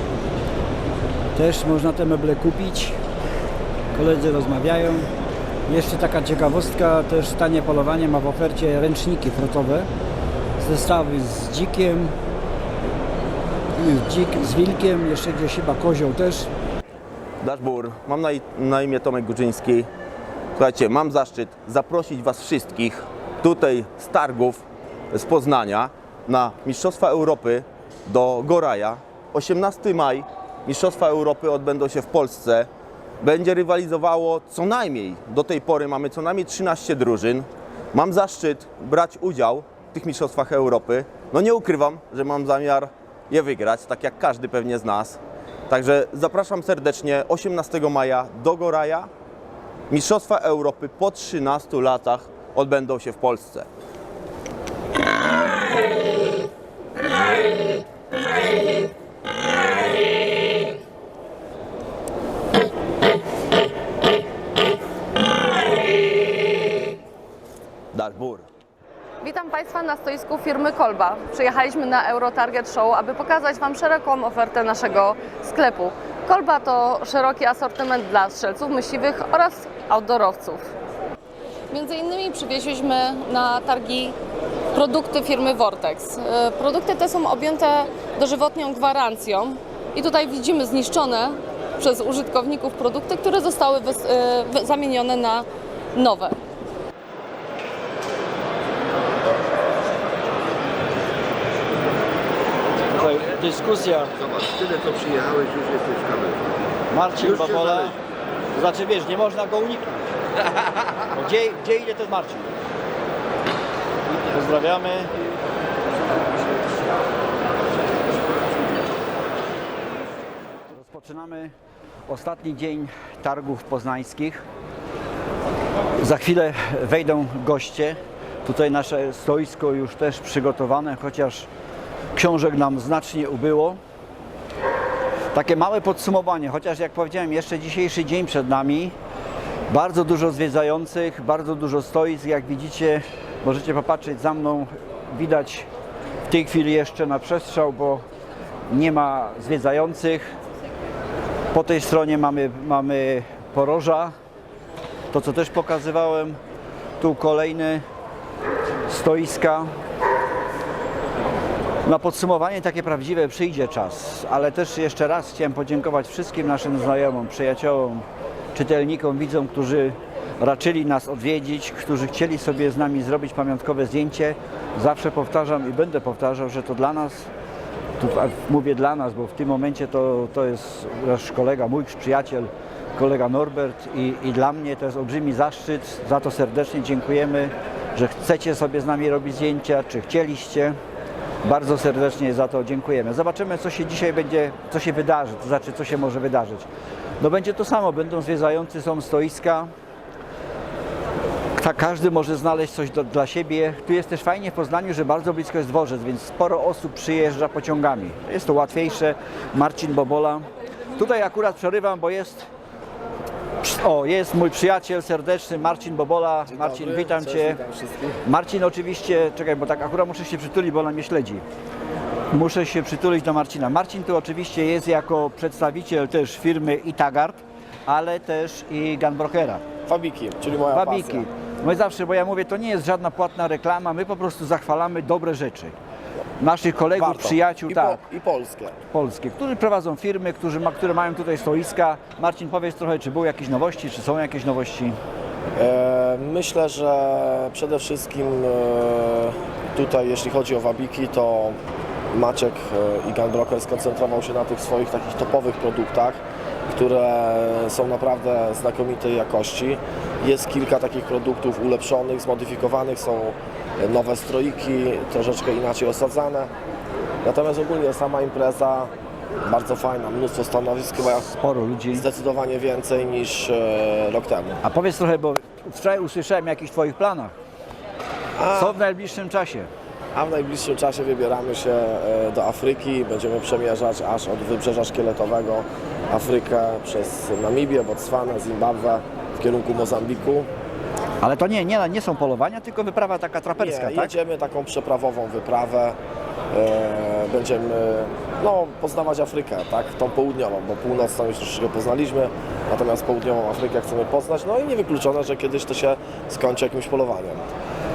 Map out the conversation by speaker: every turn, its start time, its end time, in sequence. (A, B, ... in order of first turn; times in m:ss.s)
0:01.4-0:03.0 A
0:04.0-0:05.1 A
0:05.7-0:09.9 A
0:10.6-0:12.2 A
0:13.8-0:16.5 A
0:17.4-0:19.9 B
0:20.6-0:32.7 B
0:33.2-0:49.1 B
0:49.9-0:53.7 B
1:07.9-1:08.4 B
1:09.2-1:20.7 C
1:21.7-1:24.2 C
1:24.7-1:36.4 C
1:42.9-1:44.1 A
1:43.0-1:43.4 D
1:44.1-1:48.0 D
1:46.9-1:48.0 A
1:48.6-1:50.1 A
1:51.1-1:52.5 A
1:54.1-1:55.1 A
2:00.7-2:01.5 A
2:02.1-2:04.4 A
2:06.0-2:11.5 A
2:12.1-2:13.8 A
2:15.3-2:19.0 A
2:19.7-2:25.7 A
2:26.3-2:28.0 A
2:28.7-2:30.3 A
2:31.5-2:34.1 A
2:35.1-2:36.4 A
2:37.0-2:37.8 A
2:38.9-2:39.7 A
2:41.8-2:57.3 A
2:58.0-3:10.8 A
3:11.4-3:16.7 A
3:17.2-3:19.7 A
3:21.6-3:32.5 A
3:33.6-3:37.6 A
3:36.5-3:38.2 E
3:38.2-3:41.4 A
3:42.3-3:49.6 A
3:49.9-3:51.2 E
3:50.7-3:55.8 A
3:56.4-3:58.0 A
3:57.0-3:58.8 E
3:58.9-4:05.0 A
4:05.6-4:11.6 E
4:12.1-4:26.5 E
4:27.2-4:28.9 E
4:29.4-4:31.3 E
4:31.4-4:32.0 A
4:31.9-4:34.6 E
4:34.6-4:37.4 A
4:38.4-4:38.8 E
4:38.5-4:39.7 A
4:40.2-4:50.5 E
4:51.2-4:54.1 A
4:53.6-4:56.0 E
4:56.5-5:07.4 E